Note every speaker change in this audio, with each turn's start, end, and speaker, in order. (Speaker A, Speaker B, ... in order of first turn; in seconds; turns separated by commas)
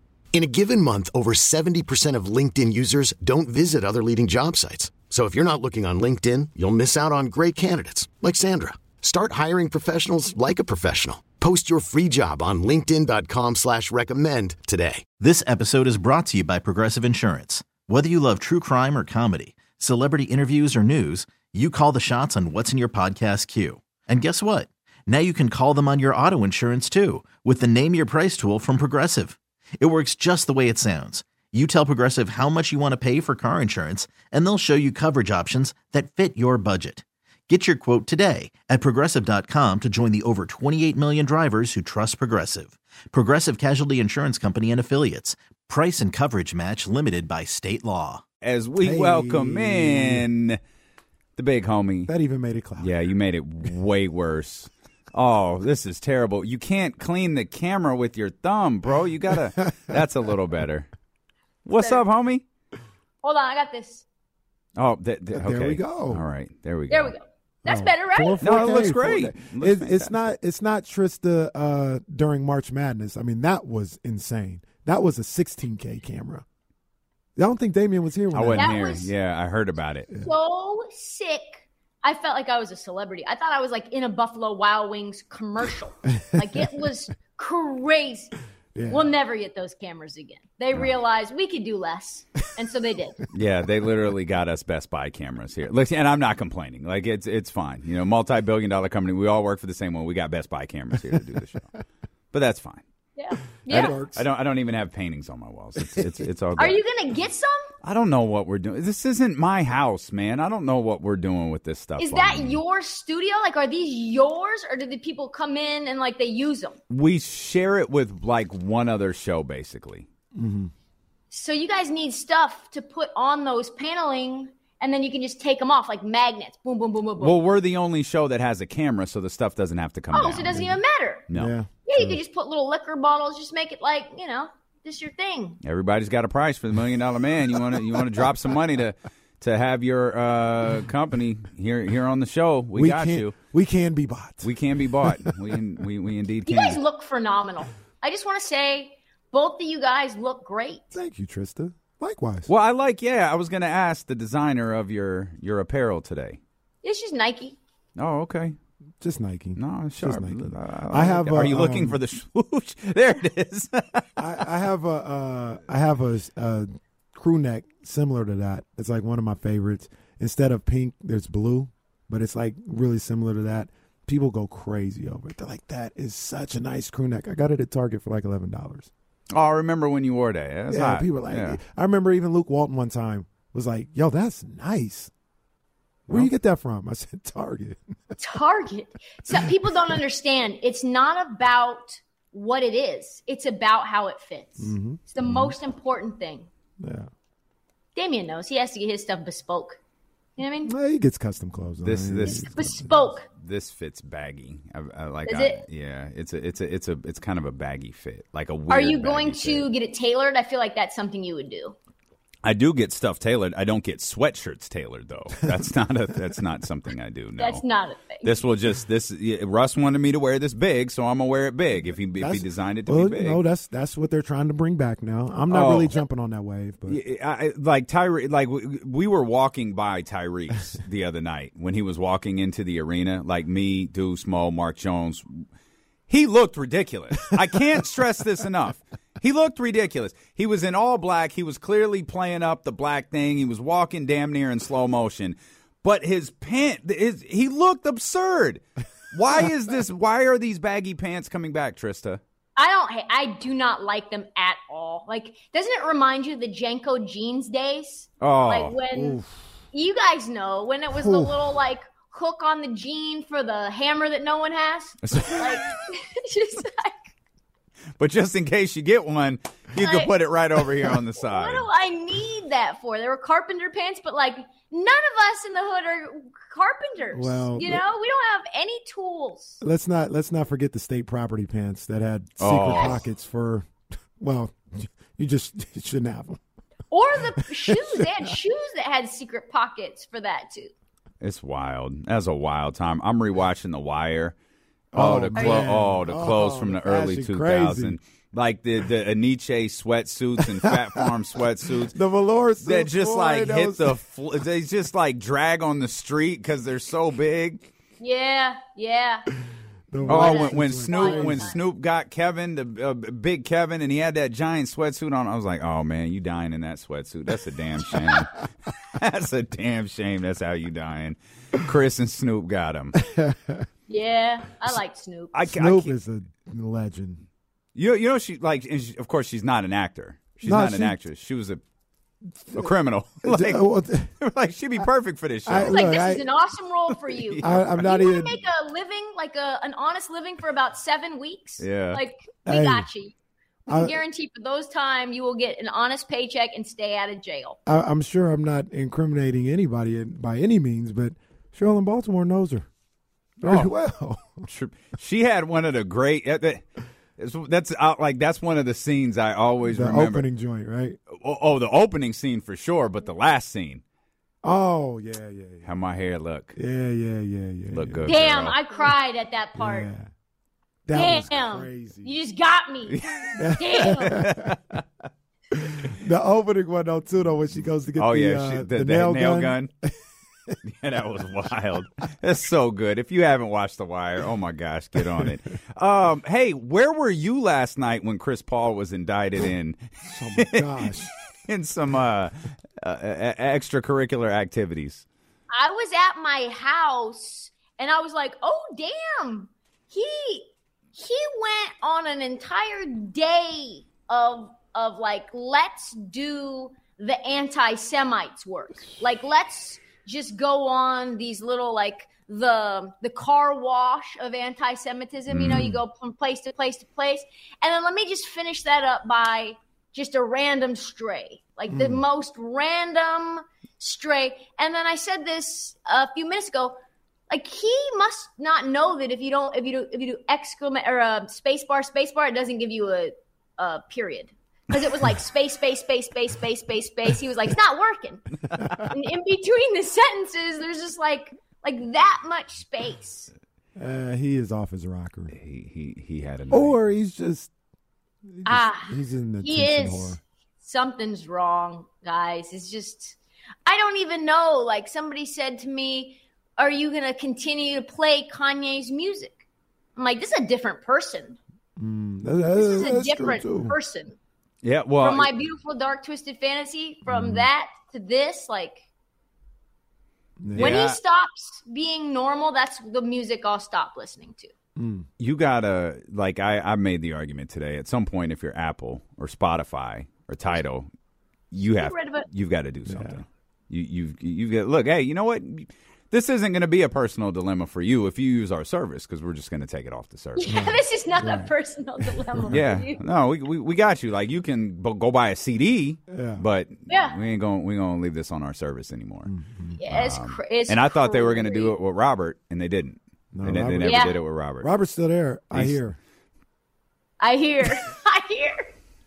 Speaker A: 0.3-15.1, Speaker B: 15.2-48.2, Speaker C: 48.4-50.6, Speaker D: 48.8-50.2, Speaker C: 51.4-52.1, Speaker D: 52.1-52.9, Speaker C: 52.8-60.9, Speaker C: 61.6-62.4, Speaker E: 61.7-62.0, Speaker E: 63.2-64.0, Speaker C: 64.8-67.1, Speaker D: 65.3-66.2, Speaker E: 66.9-68.4, Speaker D: 67.6-76.4, Speaker C: 68.4-70.1, Speaker D: 77.4-78.8, Speaker C: 78.3-80.1, Speaker E: 78.5-79.1, Speaker E: 80.2-88.3, Speaker D: 88.7-89.1, Speaker E: 88.9-93.2, Speaker C: 93.3-101.8, Speaker C: 102.3-102.8, Speaker E: 103.2-104.0, Speaker D: 103.7-104.2, Speaker C: 103.7-106.8, Speaker E: 106.6-107.7, Speaker C: 107.8-112.6, Speaker E: 112.0-116.8, Speaker C: 116.9-120.1, Speaker D: 120.3-120.7, Speaker E: 121.3-127.3, Speaker C: 127.2-130.8, Speaker E: 130.1-131.2, Speaker C: 131.3-131.5, Speaker D: 131.3-132.2, Speaker E: 131.8-135.6, Speaker C: 135.6-143.3, Speaker D: 142.7-144.5, Speaker C: 144.4-146.8, Speaker D: 145.0-145.3, Speaker E: 146.4-150.9, Speaker D: 150.9-152.5, Speaker C: 152.5-156.4, Speaker E: 156.8-157.6, Speaker C: 158.0-158.6, Speaker D: 159.0-162.0, Speaker C: 159.6-164.2, Speaker D: 164.2-178.9, Speaker C: 179.3-181.6, Speaker D: 180.7-185.1, Speaker D: 186.1-188.0, Speaker E: 188.2-196.5, Speaker D: 194.6-195.5, Speaker D: 196.8-197.1, Speaker E: 197.9-199.8, Speaker E: 200.4-200.7, Speaker D: 200.6-202.9, Speaker C: 201.8-209.7, Speaker E: 202.2-203.3, Speaker E: 205.2-205.6, Speaker E: 208.7-211.8, Speaker C: 212.4-217.6, Speaker E: 217.4-218.3, Speaker C: 218.2-223.4, Speaker D: 222.2-227.0, Speaker C: 225.5-225.9, Speaker C: 226.9-235.5, Speaker C: 236.1-252.2, Speaker E: 252.6-259.2, Speaker C: 258.2-258.7, Speaker D: 258.9-259.3, Speaker E: 259.7-267.1, Speaker D: 261.0-261.3, Speaker C: 265.0-265.7, Speaker C: 268.0-271.7, Speaker E: 269.8-270.1, Speaker E: 271.2-279.6, Speaker D: 277.1-277.8, Speaker D: 279.6-283.7, Speaker C: 282.4-283.0, Speaker D: 284.2-286.4, Speaker E: 286.9-290.7, Speaker D: 287.4-288.3, Speaker C: 291.2-294.3, Speaker D: 294.9-298.0, Speaker C: 294.9-302.0, Speaker E: 295.4-295.7, Speaker D: 301.9-304.0, Speaker C: 302.6-307.7, Speaker E: 308.0-309.3, Speaker D: 309.9-311.6, Speaker E: 310.0-311.6, Speaker C: 310.1-323.0, Speaker D: 323.0-323.6, Speaker E: 323.9-325.3, Speaker C: 325.3-325.9, Speaker D: 325.4-327.2, Speaker C: 327.7-331.6, Speaker D: 330.4-330.9, Speaker C: 332.5-333.6, Speaker D: 333.2-334.1, Speaker C: 334.2-335.8, Speaker D: 335.4-336.2, Speaker E: 335.6-343.1, Speaker C: 337.2-337.6, Speaker D: 337.4-338.4, Speaker C: 341.6-342.0, Speaker D: 342.4-342.9, Speaker D: 343.7-344.0, Speaker E: 343.7-347.6, Speaker D: 347.6-352.7, Speaker D: 353.4-354.4, Speaker C: 353.4-353.7, Speaker C: 354.4-356.6, Speaker C: 357.2-360.2, Speaker D: 359.6-361.0, Speaker C: 361.1-363.8, Speaker D: 364.4-365.7, Speaker C: 365.6-366.6, Speaker D: 366.6-368.1, Speaker C: 367.7-368.6, Speaker E: 368.1-369.9, Speaker D: 369.6-370.1, Speaker D: 370.8-372.1, Speaker E: 370.9-373.0, Speaker C: 372.9-374.8, Speaker D: 373.4-374.5, Speaker E: 373.5-374.2, Speaker D: 375.6-379.9, Speaker C: 378.0-379.7, Speaker C: 380.6-390.6, Speaker D: 390.0-391.1, Speaker C: 391.5-395.0, Speaker E: 395.5-426.8, Speaker C: 415.3-415.7, Speaker D: 415.4-415.8, Speaker D: 421.7-422.0, Speaker E: 427.3-443.3, Speaker D: 443.8-445.3, Speaker C: 445.3-446.8, Speaker D: 446.5-447.5, Speaker D: 448.3-450.2, Speaker E: 448.4-459.4, Speaker E: 459.9-461.4, Speaker D: 461.8-463.8, Speaker E: 462.6-464.2, Speaker C: 464.6-465.3, Speaker E: 465.0-468.8, Speaker D: 467.1-467.5, Speaker D: 470.4-470.8, Speaker C: 470.5-471.0, Speaker E: 470.6-474.5, Speaker D: 474.8-475.1, Speaker C: 475.2-480.9, Speaker C: 481.5-490.6, Speaker E: 481.8-482.3, Speaker D: 482.9-483.2, Speaker E: 490.4-493.0, Speaker D: 490.5-491.5, Speaker D: 492.1-492.6, Speaker C: 492.5-499.3, Speaker D: 496.1-496.4, Speaker E: 496.9-497.2, Speaker D: 499.3-499.8, Speaker E: 499.8-501.7, Speaker C: 499.9-504.7, Speaker D: 503.3-506.0, Speaker E: 503.8-504.1, Speaker E: 507.2-508.7